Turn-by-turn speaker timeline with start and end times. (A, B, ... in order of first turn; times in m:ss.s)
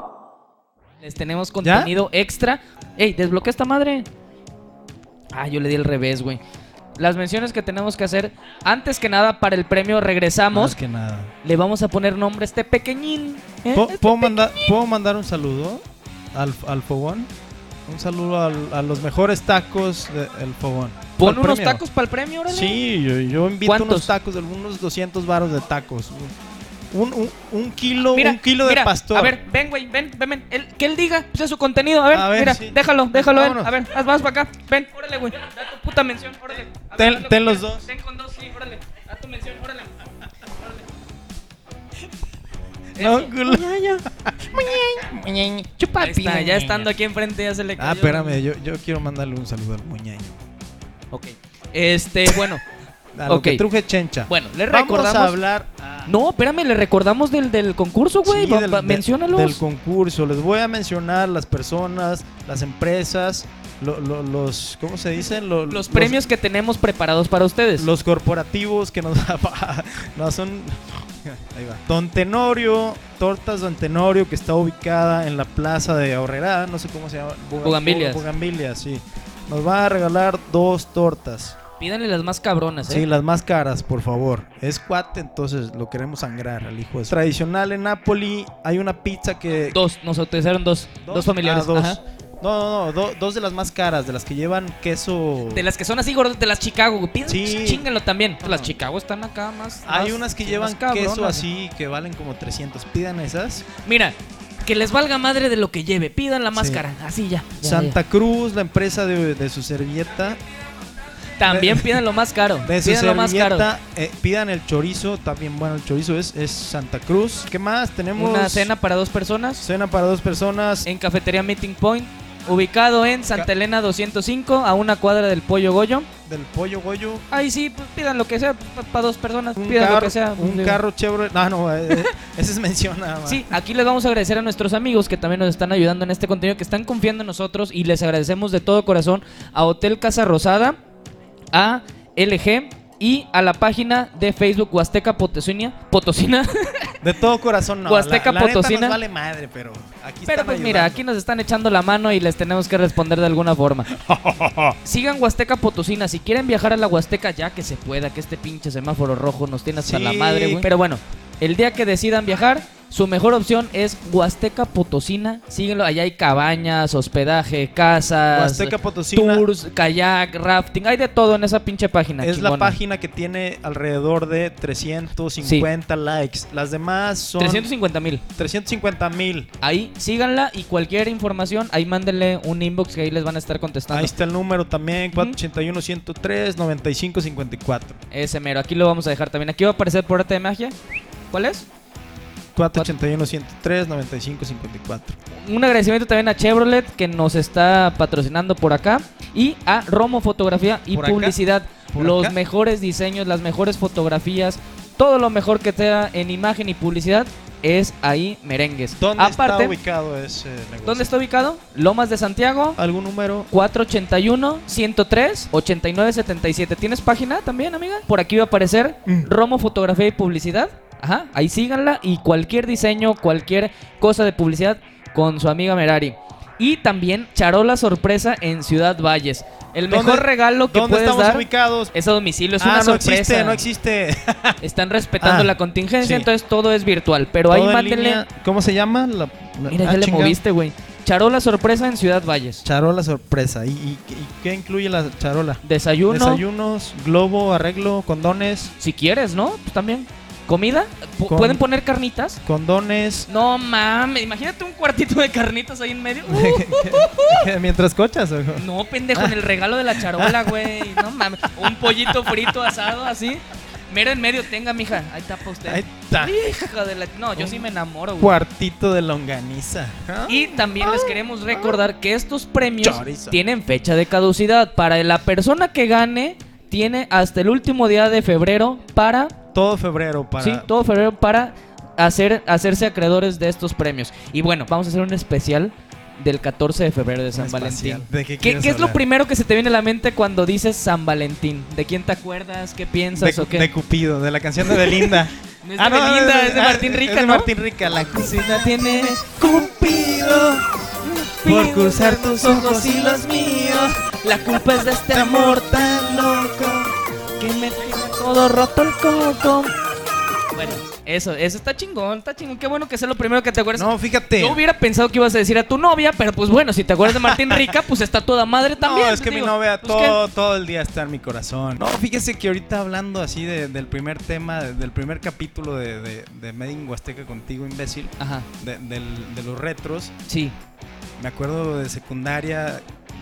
0:01.0-0:04.1 A
0:01.6-0:01.9 B
0:05.3-0:06.4 A
0:07.0-0:10.8 A
0:10.5-0:11.3 B
0:11.4-0:14.7 A
0:13.7-0:17.3 B
0:17.9-0:21.8 B
0:21.2-0:22.8 A
0:22.5-0:26.3 B
0:23.7-0:24.1 A
0:26.9-0:29.4 B
0:28.1-0:40.7 A
0:32.1-0:33.7 B
0:37.0-0:37.9 B
0:43.0-0:43.6 A
0:43.0-0:46.9 B
0:46.0-0:48.4 A
0:47.8-0:50.4 B
0:51.1-0:52.6 A
0:52.3-0:52.6 B
0:53.2-0:56.1 B
0:53.3-0:53.6 A
0:54.3-0:55.4 A
0:56.1-0:59.6 A
0:58.2-1:06.2 B
1:05.7-1:07.9 A
1:07.8-1:21.6 B
1:17.6-1:18.2 A
1:21.8-1:23.1 A
1:22.9-1:29.8 B
1:29.7-1:32.0 A
1:31.0-1:35.7 B
1:35.4-1:41.4 A
1:37.3-1:37.9 B
1:38.4-1:38.8 B
1:39.9-1:43.7 B
1:43.8-1:48.0 A
1:46.5-1:46.9 B
1:47.6-1:50.4 B
1:51.4-1:53.7 A
1:51.4-1:52.0 B
1:52.6-1:58.7 B
1:58.2-1:59.6 A
1:59.6-2:00.9 B
2:00.8-2:06.1 A
2:06.3-2:07.2 B
2:07.3-2:10.8 A
2:09.6-2:13.5 B
2:13.3-2:20.8 A
2:21.5-2:27.0 A
2:27.0-2:31.0 B
2:27.9-2:29.0 A
2:30.3-2:33.9 A
2:33.9-2:34.8 B
2:34.8-2:52.8 A
2:39.8-2:40.7 B
2:48.3-2:49.5 B
2:52.2-2:57.7 B
2:55.4-2:55.7 A
2:57.4-2:58.2 A
2:58.4-2:59.5 B
2:59.6-3:04.1 A
3:03.9-3:08.0 B
3:08.1-3:10.8 A
3:11.3-3:11.7 A
3:12.6-3:15.2 B
3:15.3-3:29.8 A
3:20.9-3:21.4 B
3:21.9-3:22.4 B
3:29.0-3:31.2 B
3:30.8-3:32.8 A
3:32.8-3:33.5 B
3:33.5-3:53.6 A
3:49.9-3:51.9 B
3:52.6-3:54.6 B
3:54.6-3:58.2 A
3:55.2-3:56.3 B
3:57.5-4:00.4 B
3:59.7-4:02.6 A
4:02.6-4:08.7 B
4:05.6-4:06.4 A
4:08.8-4:12.4 A
4:11.3-4:11.6 B
4:12.4-4:13.3 B
4:13.3-4:17.5 A
4:16.3-4:21.1 B
4:18.6-4:28.4 A
4:21.6-4:22.8 B
4:25.6-4:26.4 B
4:27.4-4:31.8 B
4:30.3-4:39.4 A
4:32.7-4:33.4 B
4:39.5-4:40.7 B
4:40.4-4:53.7 A
4:47.3-4:49.0 B
4:53.1-5:00.7 B
4:54.6-5:00.5 A
5:01.0-5:06.4 A
5:01.4-5:04.0 B
5:05.1-5:06.9 B
5:07.4-5:09.7 A
5:10.5-5:20.2 A
5:13.7-5:14.6 B
5:17.1-5:17.7 B
5:18.8-5:30.1 B
5:28.2-5:28.5 A
5:30.3-5:30.6 A
5:31.2-5:32.8 B